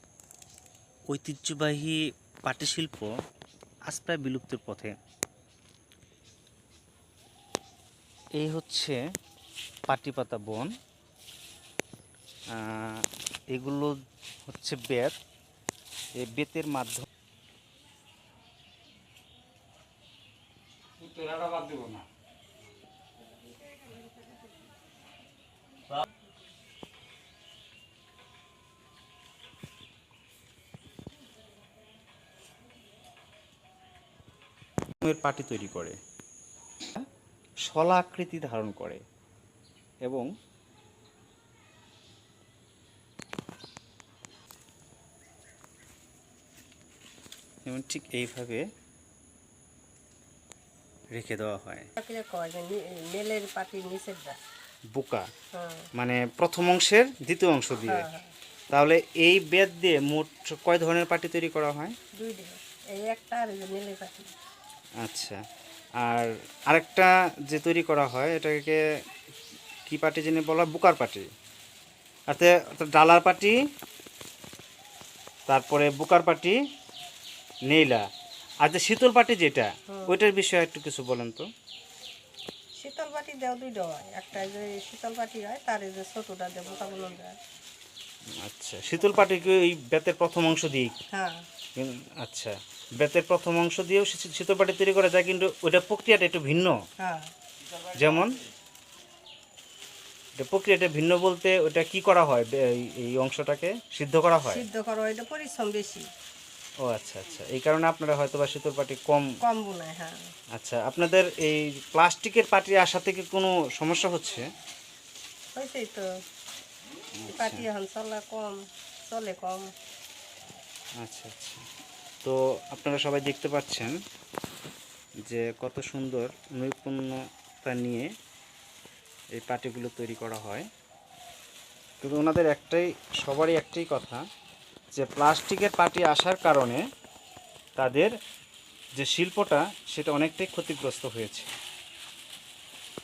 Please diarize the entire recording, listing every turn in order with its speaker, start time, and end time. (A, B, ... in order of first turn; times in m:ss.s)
0:01.1-0:03.1 A
0:03.9-0:05.0 A
0:08.4-0:09.0 A
0:09.9-0:10.7 A
0:12.5-0:15.2 A
0:16.2-0:17.0 A
0:21.0-0:22.0 A
0:23.3-0:24.4 B
0:35.0-0:36.0 A
0:37.6-0:39.0 A
0:40.0-0:40.3 A
0:47.6-0:48.6 A
0:51.1-0:51.9 A
0:52.0-0:54.4 B
0:54.9-0:55.3 A
0:55.5-0:55.9 B
0:55.9-0:58.0 A
0:57.9-0:58.3 B
0:58.7-1:01.9 A
1:02.2-1:04.3 B
1:05.0-1:05.4 A
1:06.0-1:08.8 A
1:09.8-1:11.3 A
1:12.3-1:13.6 A
1:15.5-1:16.6 A
1:17.7-1:18.0 A
1:18.6-1:21.5 A
1:19.9-1:20.2 B
1:22.8-1:27.3 B
1:28.4-1:30.9 A
1:31.1-1:31.4 B
1:31.8-1:36.8 A
1:37.0-1:37.3 B
1:37.9-1:38.4 A
1:40.4-1:44.6 A
1:44.4-1:46.1 B
1:46.8-1:49.2 A
1:49.4-1:50.3 B
1:50.5-1:54.4 A
1:55.5-1:56.1 B
1:57.2-1:57.6 A
1:57.3-1:59.7 B
2:01.0-2:01.6 A
2:02.2-2:04.0 A
2:05.2-2:08.1 A
2:09.3-2:10.7 A
2:12.0-2:14.2 A
2:14.9-2:16.8 A
2:17.8-2:18.1 A
2:19.0-2:21.5 A